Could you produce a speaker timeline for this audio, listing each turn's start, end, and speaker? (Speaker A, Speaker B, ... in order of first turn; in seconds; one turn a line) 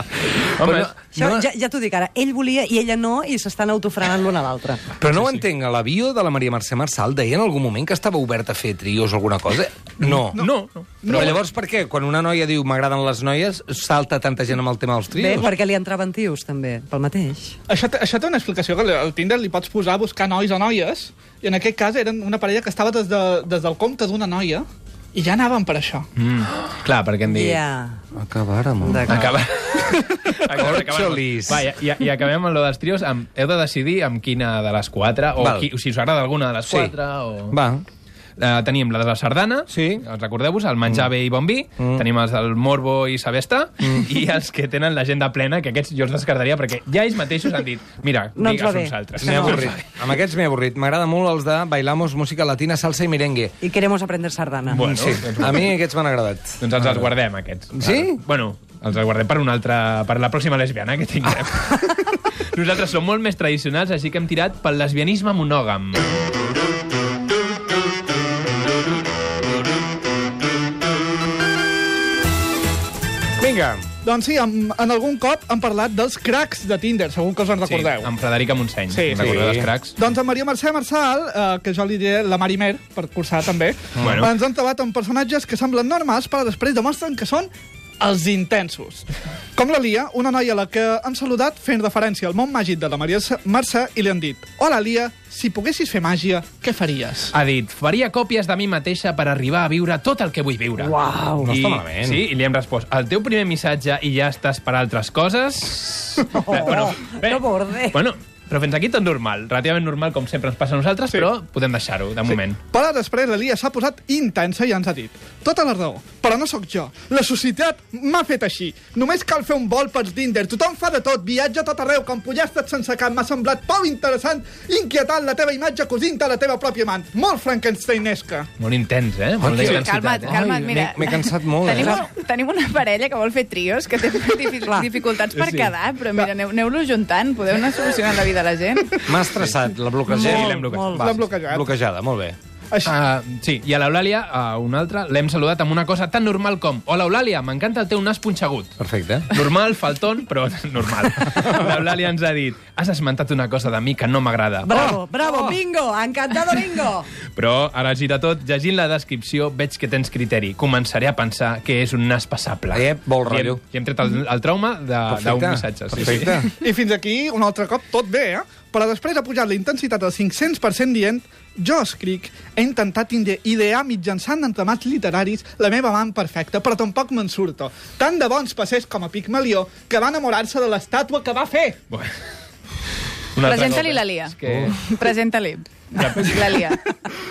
Speaker A: 0.3-0.9
Speaker B: 0.6-1.4
Speaker C: 1.1-4.9
Speaker B: 5.0-10.4
Speaker A: 5.1-5.5
Speaker A: 10.1-11.4
Speaker D: 10.3-11.4
Speaker B: 11.1-15.5
Speaker C: 15.1-17.6
Speaker D: 17.7-26.1
Speaker A: 26.2-27.6
Speaker C: 27.2-28.0
Speaker B: 28.2-29.1
Speaker C: 28.9-29.3
Speaker A: 29.1-37.6
Speaker B: 30.6-31.7
Speaker B: 35.4-35.7
Speaker B: 36.6-37.0
Speaker B: 37.5-37.8
Speaker A: 38.4-49.9
Speaker B: 39.7-40.1
Speaker B: 41.8-42.1
Speaker C: 48.4-49.6
Speaker B: 49.2-53.6
Speaker C: 53.6-54.8
Speaker A: 54.7-55.8
Speaker B: 54.8-57.1
Speaker A: 56.6-66.2
Speaker B: 57.8-58.2
Speaker B: 73.4-73.9
Speaker D: 74.0-78.1
Speaker A: 77.7-80.0
Speaker D: 78.9-79.3
Speaker B: 79.2-79.7
Speaker D: 80.0-87.5
Speaker A: 84.0-84.3
Speaker D: 88.0-97.3
Speaker A: 97.3-112.6
Speaker C: 100.8-101.5
Speaker B: 101.4-102.3
Speaker C: 106.3-108.0
Speaker D: 112.3-128.5
Speaker A: 128.6-130.4
Speaker B: 129.4-132.0
Speaker E: 129.6-139.0
Speaker A: 135.3-135.7
Speaker B: 139.1-142.4
Speaker A: 139.3-141.1
Speaker C: 140.1-141.2
Speaker D: 140.9-141.7
Speaker A: 142.8-148.7
Speaker B: 148.8-149.3
Speaker A: 149.3-155.0
Speaker C: 154.6-157.1
Speaker B: 154.7-155.6
Speaker A: 157.3-166.4
Speaker B: 162.7-163.6
Speaker B: 165.1-166.5
Speaker D: 166.0-181.8
Speaker A: 183.3-184.8
Speaker E: 183.4-186.9
Speaker B: 184.5-184.7
Speaker A: 185.9-186.5
Speaker D: 186.0-186.2